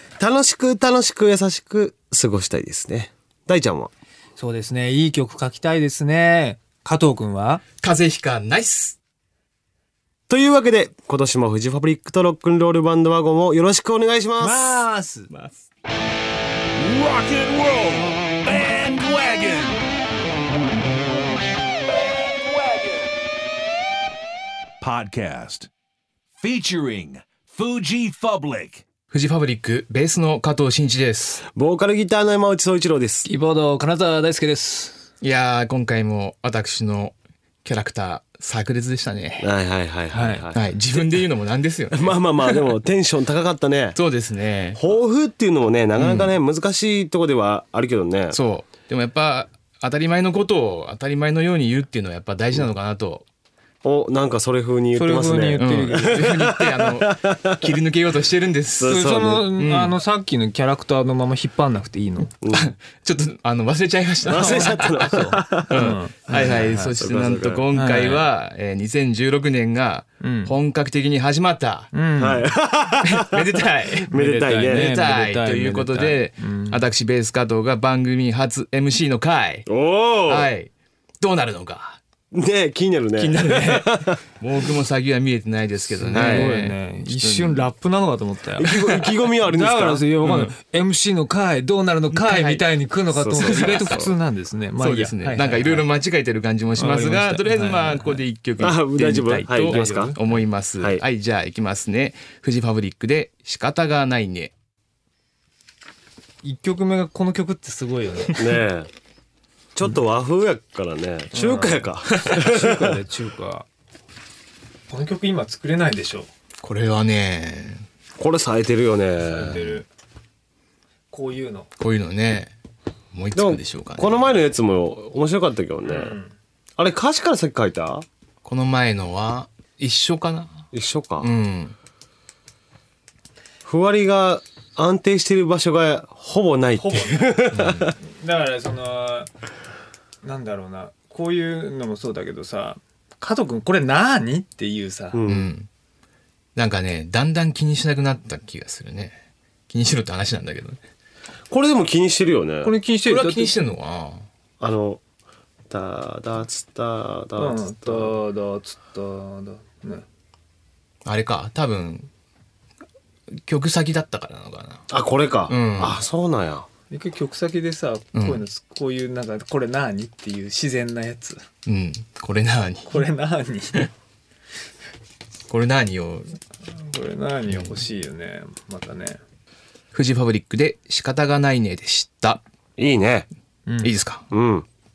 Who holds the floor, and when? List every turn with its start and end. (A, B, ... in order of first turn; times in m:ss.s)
0:00.2-0:03.9 A
0:04.4-0:07.6 B
0:07.8-0:09.0 C
0:10.3-0:14.8 A
0:14.4-0:15.3 B
0:15.3-0:15.6 C
0:16.8-0:19.8 D
0:22.0-0:23.2 D
0:24.8-0:25.7 D
0:26.4-0:28.8 D
0:29.1-0:31.4 C
0:31.5-0:33.3 A
0:33.2-0:35.1 B
0:35.2-0:39.5 C
0:39.4-0:41.2 A
0:40.1-0:40.4 B
0:40.5-0:42.6 C
0:41.9-0:44.0 A
0:43.9-0:44.8 C
0:44.7-0:48.4 A
0:46.0-0:46.3 C
0:48.3-0:53.2 C
0:53.8-0:57.7 A
0:55.0-0:56.3 B
0:55.6-0:59.9 C
0:58.8-0:59.5 A
0:58.8-1:02.3 B
1:02.4-1:02.7 A
1:02.5-1:04.9 C
1:04.2-1:07.6 A
1:04.2-1:07.0 B
1:05.7-1:11.9 C
1:07.7-1:08.3 B
1:10.2-1:10.5 B
1:11.9-1:12.5 B
1:12.2-1:14.9 A
1:13.0-1:14.1 C
1:14.1-1:16.8 B
1:14.7-1:19.7 C
1:19.7-1:20.5 A
1:20.3-1:22.0 C
1:22.3-1:24.2 A
1:23.2-1:27.7 C
1:26.0-1:28.9 B
1:26.1-1:26.6 A
1:28.6-1:30.0 A
1:29.4-1:35.8 B
1:30.2-1:30.5 C
1:32.1-1:32.6 C
1:33.1-1:34.1 A
1:33.4-1:34.0 C
1:34.8-1:44.5 C
1:36.8-1:38.2 B
1:38.6-1:40.1 A
1:39.2-1:40.3 B
1:46.4-1:48.5 B
1:48.3-1:48.9 A
1:49.8-1:53.0 A
1:51.3-1:53.6 B
1:54.9-1:56.3 B
1:56.6-1:57.8 C
1:58.2-1:59.8 A
1:59.2-1:59.9 B
2:01.1-2:01.7 B
2:01.8-2:02.5 C
2:03.1-2:04.3 C
2:03.3-2:06.2 A
2:05.8-2:06.3 B
2:06.8-2:08.0 A
2:08.4-2:10.6 C
2:10.7-2:11.3 A
2:11.2-2:11.7 C
2:13.6-2:17.9 A
2:16.8-2:17.5 B
2:17.5-2:17.9 C
2:18.0-2:19.3 B
2:20.2-2:25.2 B
2:25.1-2:25.5 A
2:25.3-2:25.7 C
2:26.6-2:30.8 C
2:31.5-2:32.7 A
2:32.6-2:33.6 B
2:33.0-2:34.3 C
2:34.6-2:35.0 A
2:35.7-2:38.2 A
2:37.4-2:40.0 B
2:41.0-2:42.1 C
2:43.4-2:44.8 C
2:44.9-2:46.7 A
2:45.5-2:46.0 C
2:46.9-2:51.4 B
2:48.1-2:48.4 C
2:51.6-2:53.0 C
2:52.9-2:53.9 B
2:55.5-2:56.4 C
2:56.7-2:59.2 B
2:57.5-2:57.8 C
2:59.9-3:02.4 C
3:02.8-3:03.3 A
3:03.6-3:03.9 B
3:03.8-3:04.3 C
3:04.3-3:04.6 A